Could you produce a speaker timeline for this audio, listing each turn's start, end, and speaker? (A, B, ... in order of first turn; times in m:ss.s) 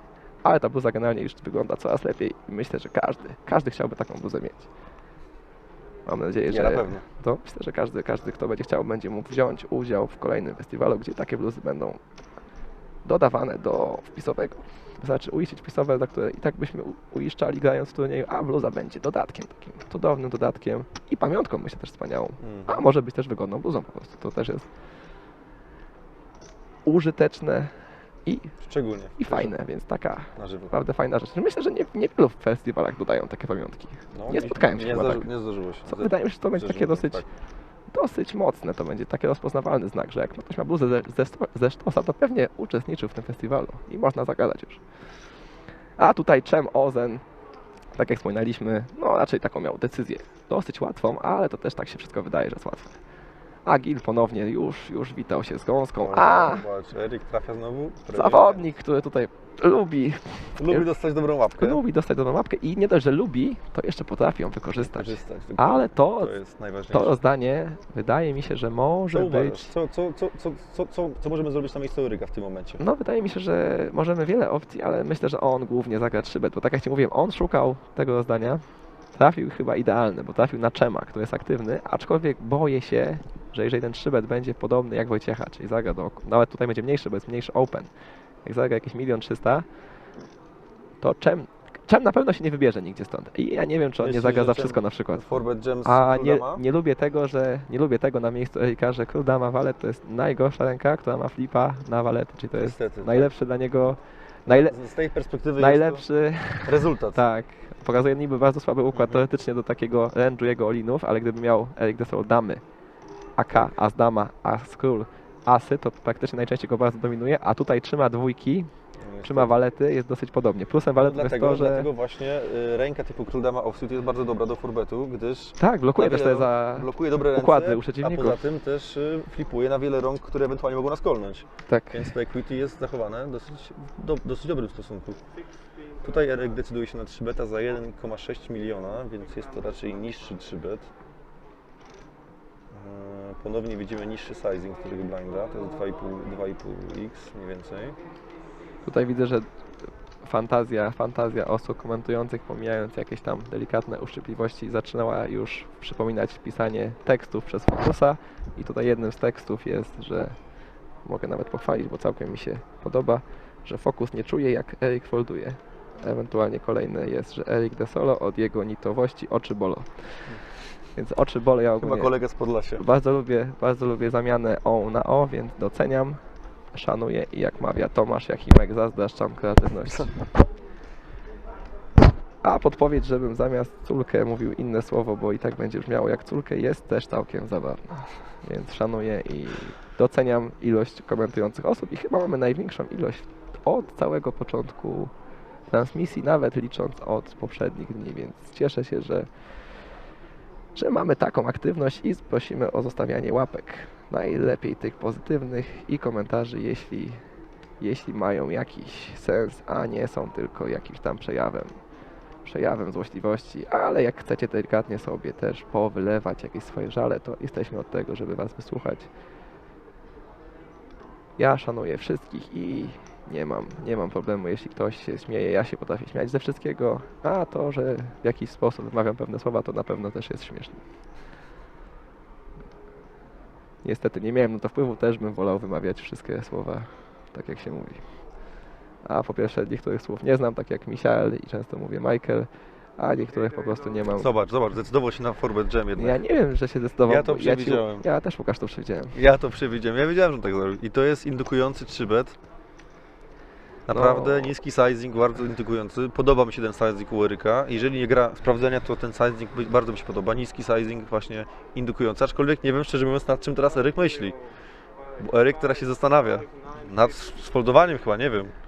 0:00.4-0:04.7 A
0:06.1-0:12.0 A
0:06.5-0:07.0 B
0:13.0-0:24.7 A
0:22.4-0:22.8 B
0:26.8-0:27.7 A
0:28.2-0:28.5 A
0:28.6-0:29.5 B
0:29.2-0:35.3 A
0:30.4-0:30.7 B
0:34.1-0:37.3 B
0:35.8-0:37.2 A
0:37.9-0:44.8 A
0:46.0-0:47.2 A
0:47.9-0:53.0 A
0:53.6-0:56.6 A
0:56.0-0:58.6 B
0:58.1-1:00.9 A
1:00.6-1:01.8 B
1:01.5-1:06.3 A
1:04.8-1:07.2 B
1:06.9-1:09.7 A
1:09.1-1:12.8 B
1:12.8-1:18.6 A
1:19.1-1:27.9 A
1:28.4-1:29.6 A
1:31.0-1:44.7 A
1:34.0-1:36.6 B
1:42.6-1:43.3 B
1:44.5-1:46.0 B
1:45.6-1:52.6 A
1:46.6-1:47.2 B
1:48.9-1:49.2 B
1:53.4-1:58.7 A
1:59.0-1:59.5 B
1:59.2-2:01.9 A
2:01.0-2:15.2 B
2:05.6-2:08.4 A
2:11.7-2:12.1 A
2:16.0-2:20.9 B
2:22.7-2:28.0 B
2:28.8-2:29.5 A
2:30.2-2:40.4 A
2:41.0-2:50.3 A
2:51.0-2:52.1 A
2:51.8-2:52.8 B
2:52.8-2:56.2 A
2:56.7-3:00.2 A
3:02.4-3:15.1 A
3:15.7-3:19.3 A
3:20.7-3:27.2 A
3:27.8-3:31.7 A
3:32.4-3:39.1 A
3:41.4-3:50.8 A
3:53.8-3:58.0 A
3:59.0-4:04.3 A
4:04.2-4:06.2 B
4:05.9-4:09.2 A
4:07.1-4:08.0 B
4:09.1-4:12.4 B
4:13.9-4:24.4 B
4:13.9-4:14.5 A
4:25.2-4:28.5 B